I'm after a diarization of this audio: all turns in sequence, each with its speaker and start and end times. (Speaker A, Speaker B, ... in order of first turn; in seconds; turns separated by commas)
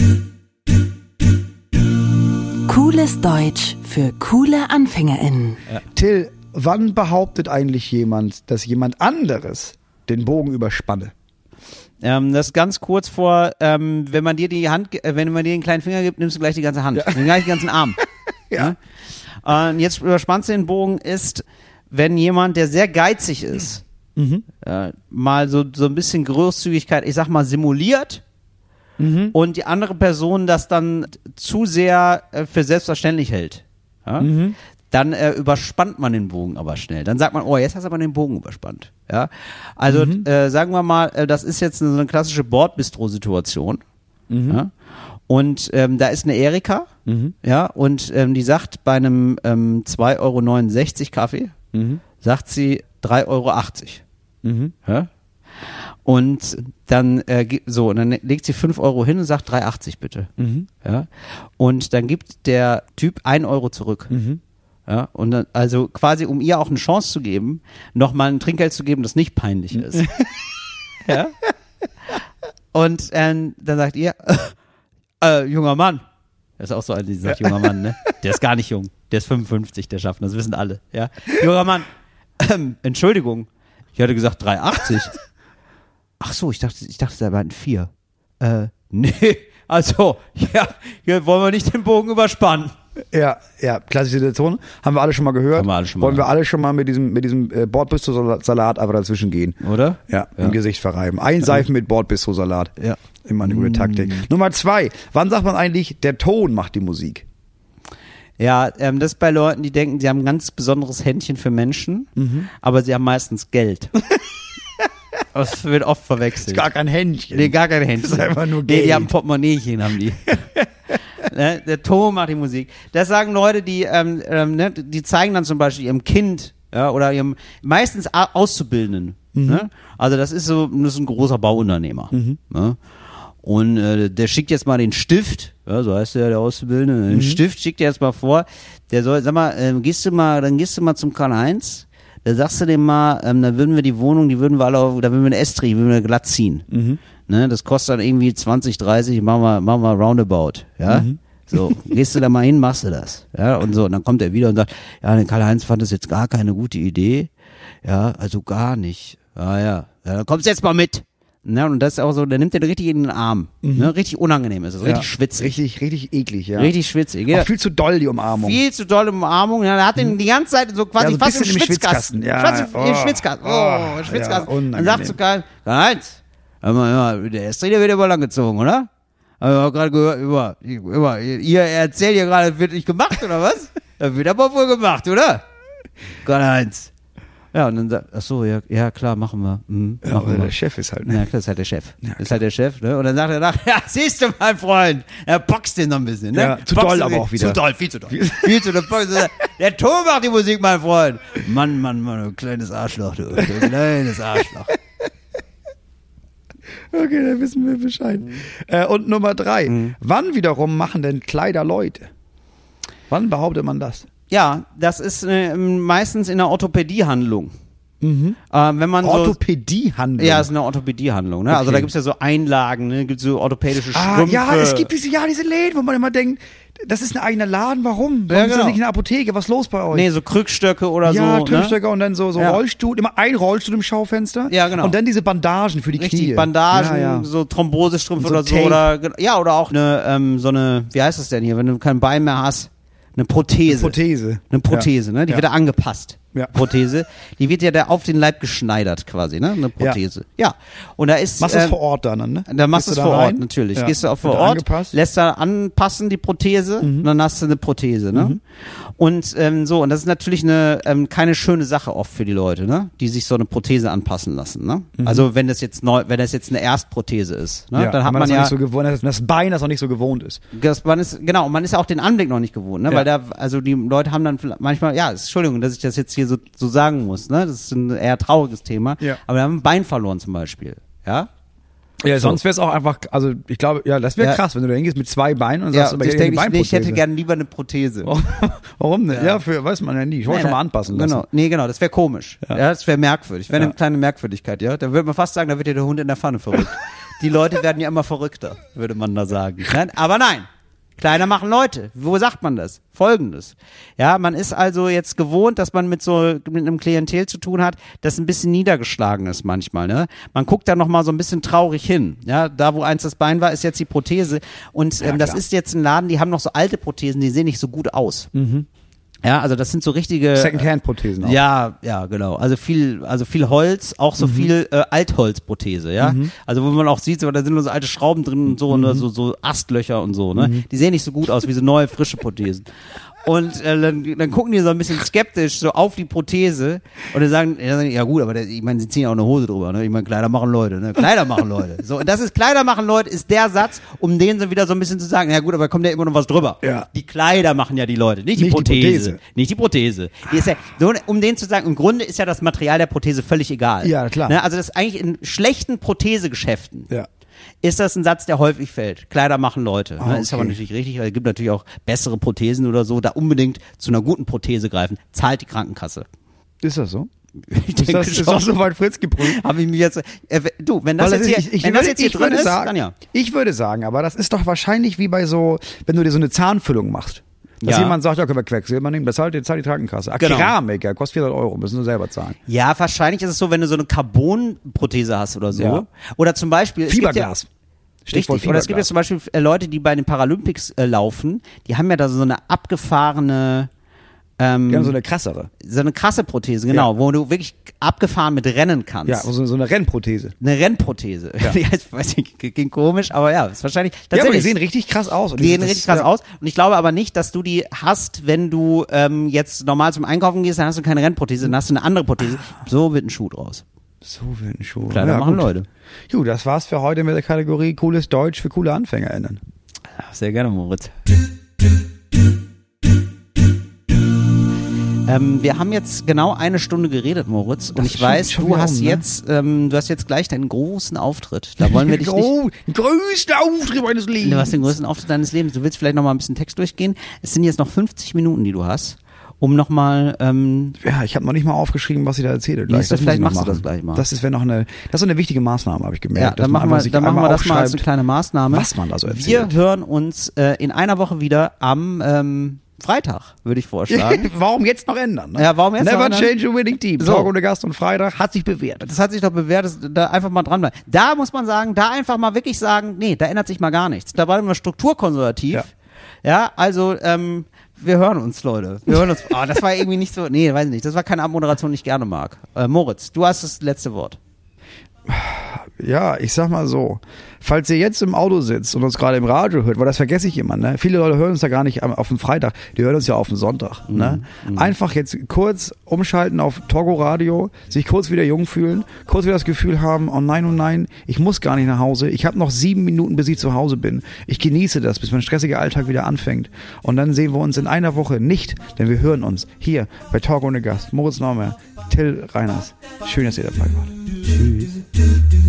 Speaker A: 2.7-5.6, Speaker B: 5.9-11.1, Speaker C: 12.0-18.0, Speaker B: 16.9-17.2, Speaker B: 18.5-18.7, Speaker C: 19.4-23.8, Speaker B: 24.1-24.4, Speaker C: 24.6-28.2, Speaker B: 29.0-29.3, Speaker C: 29.3-34.3, Speaker B: 34.2-34.5, Speaker C: 34.9-43.8, Speaker B: 39.9-40.3, Speaker B: 44.3-44.6, Speaker C: 45.3-46.9, Speaker B: 47.0-47.3, Speaker C: 47.4-51.5, Speaker B: 51.7-52.0, Speaker C: 52.2-54.0, Speaker B: 54.4-54.7, Speaker C: 56.0-60.3, Speaker B: 60.4-60.7, Speaker C: 60.8-64.1, Speaker B: 64.1-64.4, Speaker C: 64.9-70.1, Speaker B: 69.7-70.2, Speaker C: 71.0-71.3, Speaker C: 72.7-74.5, Speaker C: 75.2-76.0, Speaker C: 76.6-81.9, Speaker B: 77.2-77.8, Speaker C: 82.4-85.2, Speaker C: 86.2-92.7, Speaker B: 93.1-102.7, Speaker C: 95.5-96.3, Speaker C: 99.6-100.5, Speaker C: 102.8-104.2, Speaker B: 103.2-107.2, Speaker C: 108.4-113.9, Speaker B: 112.2-112.5, Speaker C: 115.3-116.7, Speaker B: 116.5-119.1, Speaker C: 117.3-120.4, Speaker C: 121.2-132.8, Speaker B: 129.3-129.7, Speaker B: 132.1-132.4, Speaker C: 133.4-146.7, Speaker B: 137.1-137.4, Speaker B: 146.7-147.0, Speaker C: 147.3-157.3, Speaker B: 150.9-151.8, Speaker C: 157.8-165.5, Speaker B: 163.6-163.9, Speaker B: 164.8-166.7, Speaker C: 166.6-167.5, Speaker B: 167.3-168.6, Speaker C: 168.3-178.9, Speaker B: 171.0-175.2, Speaker C: 179.4-185.4, Speaker C: 186.2-186.9, Speaker C: 187.5-190.5, Speaker B: 190.0-191.2, Speaker C: 191.0-204.7, Speaker B: 192.0-192.3, Speaker B: 196.3-198.7, Speaker B: 206.9-212.1, Speaker C: 209.7-209.9, Speaker B: 213.1-214.1, Speaker C: 214.3-217.5, Speaker B: 218.0-218.4, Speaker C: 218.5-219.4, Speaker B: 219.0-220.5, Speaker C: 220.2-224.9, Speaker B: 221.5-221.9, Speaker B: 223.9-230.1, Speaker C: 228.3-228.8, Speaker C: 229.9-231.8, Speaker B: 231.0-237.3, Speaker C: 234.5-235.0, Speaker C: 236.0-244.0, Speaker B: 238.2-238.9, Speaker B: 243.7-245.4, Speaker C: 244.5-251.8, Speaker B: 251.4-254.9, Speaker C: 252.5-268.5, Speaker B: 256.8-257.1, Speaker B: 258.1-258.4, Speaker B: 265.0-265.3, Speaker B: 267.7-270.4, Speaker C: 270.5-281.3, Speaker B: 282.0-287.0, Speaker C: 282.1-282.4, Speaker C: 285.7-288.1, Speaker B: 288.0-291.2, Speaker C: 289.1-289.4, Speaker C: 290.3-318.3, Speaker B: 293.5-293.7, Speaker B: 315.0-315.4, Speaker B: 318.3-318.7, Speaker C: 319.2-320.6, Speaker B: 320.3-321.4, Speaker C: 321.2-356.9, Speaker B: 324.2-324.5, Speaker B: 326.0-326.3, Speaker B: 328.7-329.1, Speaker B: 330.3-330.6, Speaker B: 346.6-346.9, Speaker B: 348.4-349.2, Speaker B: 353.8-354.4, Speaker C: 357.6-366.1, Speaker B: 360.0-360.5, Speaker B: 366.6-367.1, Speaker C: 367.5-368.5, Speaker B: 367.8-369.4, Speaker C: 369.2-372.9, Speaker B: 371.0-382.4, Speaker C: 377.6-378.0, Speaker C: 380.2-380.5, Speaker C: 382.5-387.3, Speaker B: 385.5-385.8, Speaker B: 386.9-387.5, Speaker B: 388.1-388.9, Speaker C: 388.1-393.7, Speaker C: 394.4-394.9, Speaker B: 394.7-395.5, Speaker C: 395.6-399.3, Speaker B: 399.1-400.4, Speaker C: 400.4-404.5, Speaker B: 404.1-406.1, Speaker C: 405.4-413.6, Speaker B: 414.0-415.5, Speaker C: 414.9-415.6, Speaker B: 416.1-419.4, Speaker C: 419.9-420.9, Speaker C: 425.1-432.3, Speaker B: 427.7-429.0, Speaker B: 431.6-434.7, Speaker C: 434.2-440.8, Speaker B: 440.8-447.8, Speaker C: 442.7-444.0, Speaker C: 446.1-454.3, Speaker B: 448.5-449.5, Speaker B: 453.9-458.9, Speaker C: 455.4-456.3, Speaker C: 457.0-457.3, Speaker C: 458.8-465.7, Speaker C: 466.2-474.2, Speaker B: 475.1-504.8, Speaker C: 483.9-484.7